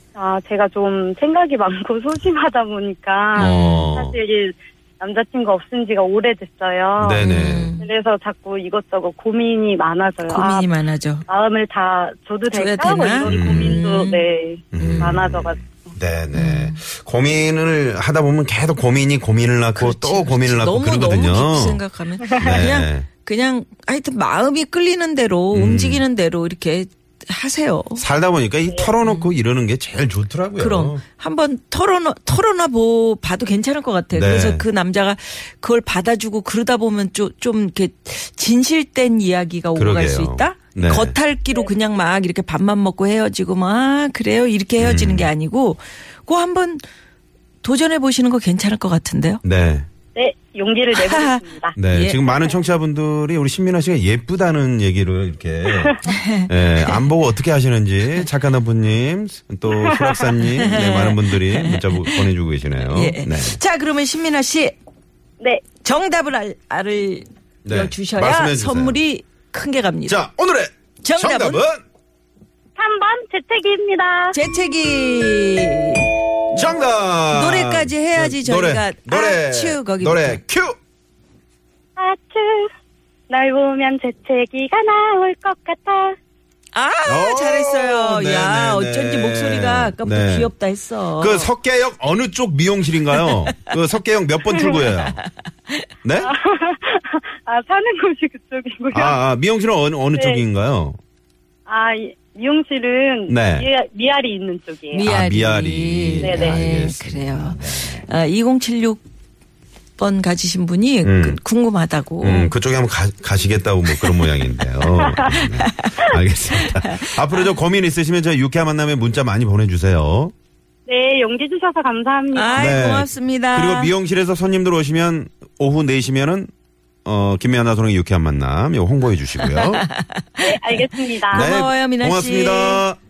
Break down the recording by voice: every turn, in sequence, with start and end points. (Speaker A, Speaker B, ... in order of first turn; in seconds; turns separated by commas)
Speaker A: 0.1-7.2, Speaker B: 3.4-4.2, Speaker C: 3.4-4.0, Speaker B: 7.0-7.7, Speaker C: 7.2-7.9, Speaker A: 7.8-10.7, Speaker C: 10.2-11.2, Speaker A: 11.3-15.9, Speaker C: 12.5-15.2, Speaker B: 13.2-13.8, Speaker B: 14.7-23.1, Speaker C: 16.3-16.8, Speaker C: 19.8-28.1, Speaker B: 25.5-26.1, Speaker B: 28.0-31.0, Speaker C: 29.0-29.3, Speaker C: 30.6-46.8, Speaker B: 34.1-34.6, Speaker B: 39.8-41.1, Speaker B: 44.8-45.3, Speaker C: 47.6-49.4, Speaker B: 49.4-49.9, Speaker A: 50.1-51.8, Speaker C: 50.9-52.2, Speaker B: 51.8-63.6, Speaker C: 56.1-57.1, Speaker A: 59.7-60.4, Speaker C: 60.6-62.3, Speaker C: 62.8-64.8, Speaker A: 65.4-65.6, Speaker C: 65.8-70.2, Speaker B: 67.6-69.0, Speaker B: 70.1-71.8, Speaker C: 71.0-71.6, Speaker A: 72.8-74.4, Speaker C: 74.3-76.8, Speaker B: 76.5-80.8, Speaker C: 77.3-80.4, Speaker A: 82.0-82.7, Speaker A: 83.3-86.2, Speaker C: 86.7-91.5, Speaker B: 87.1-90.5, Speaker B: 91.2-95.2, Speaker B: 96.0-96.3, Speaker A: 96.2-99.2, Speaker B: 98.9-101.0, Speaker A: 100.1-100.4, Speaker A: 101.7-105.1, Speaker B: 103.3-103.7, Speaker C: 104.9-109.0, Speaker B: 105.0-108.1, Speaker A: 106.2-106.6, Speaker C: 110.0-112.5, Speaker B: 111.0-111.4, Speaker B: 112.2-120.3, Speaker A: 115.1-115.4, Speaker C: 115.6-116.1, Speaker C: 116.6-117.5, Speaker A: 120.9-122.8, Speaker C: 122.3-123.9, Speaker B: 122.6-126.5, Speaker B: 127.0-129.8, Speaker C: 129.4-132.8, Speaker A: 130.4-131.6, Speaker B: 131.3-133.0